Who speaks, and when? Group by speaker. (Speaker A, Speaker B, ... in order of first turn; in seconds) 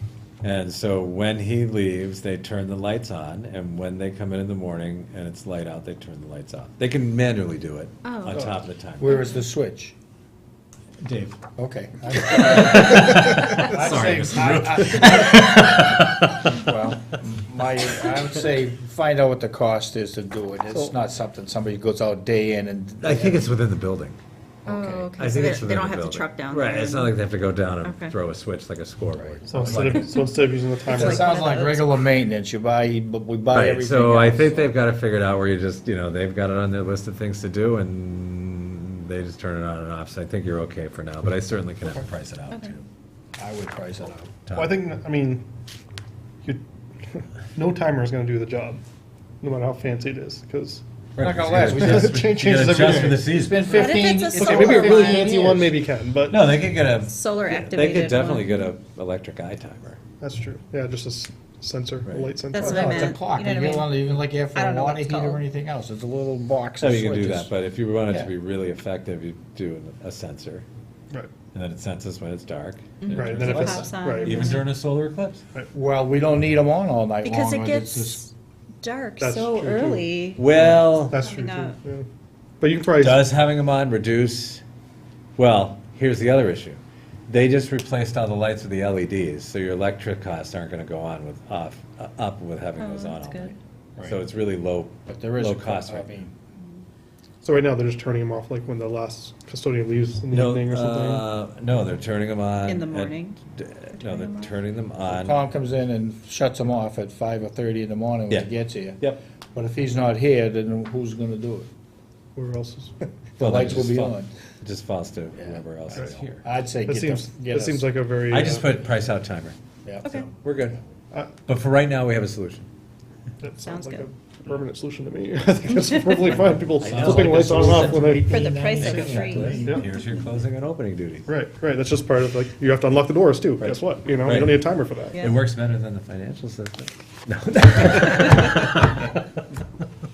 Speaker A: 0.4-9.2, 11.0-11.4, 12.2-16.7, 23.0-24.2, 25.2-30.1, 33.5-42.9, 44.5-44.8, 51.1-53.8, 56.3-60.0, 62.0-62.4, 66.8-70.7, 71.5-75.4, 80.4-81.2, 82.9-84.6, 85.4-96.3, 100.3-105.4, 113.4-116.5, 118.3-119.6, 120.3-120.8, 121.5-122.7, 126.8-128.3, 128.8-131.3, 133.6-139.1
Speaker B: 8.0-8.4, 9.0-9.4, 24.7-27.2, 27.8-28.1, 30.9-31.9, 53.7-55.3, 57.1-58.7, 62.5-65.4, 73.0-74.7, 77.2-81.8, 92.8-93.5, 102.7-103.4, 103.9-104.6, 123.7-124.1, 128.3-129.8
Speaker C: 9.0-9.9, 11.6-23.5, 24.6-25.1, 30.9-34.7, 43.4-44.3, 51.2-52.5, 53.1-55.7, 62.6-67.5, 75.7-78.2, 95.1-96.3, 105.1-111.7, 113.4-114.3, 115.4-117.9, 119.8-120.3, 126.8-129.8
Speaker D: 29.5-31.3, 44.5-45.5, 46.4-48.8, 49.4-50.8, 51.7-56.5, 60.2-63.1, 73.1-74.6, 79.2-82.1, 82.6-83.3, 97.4-101.2, 112.3-113.0, 116.9-118.8, 123.4-128.4, 129.6-129.9, 131.3-135.3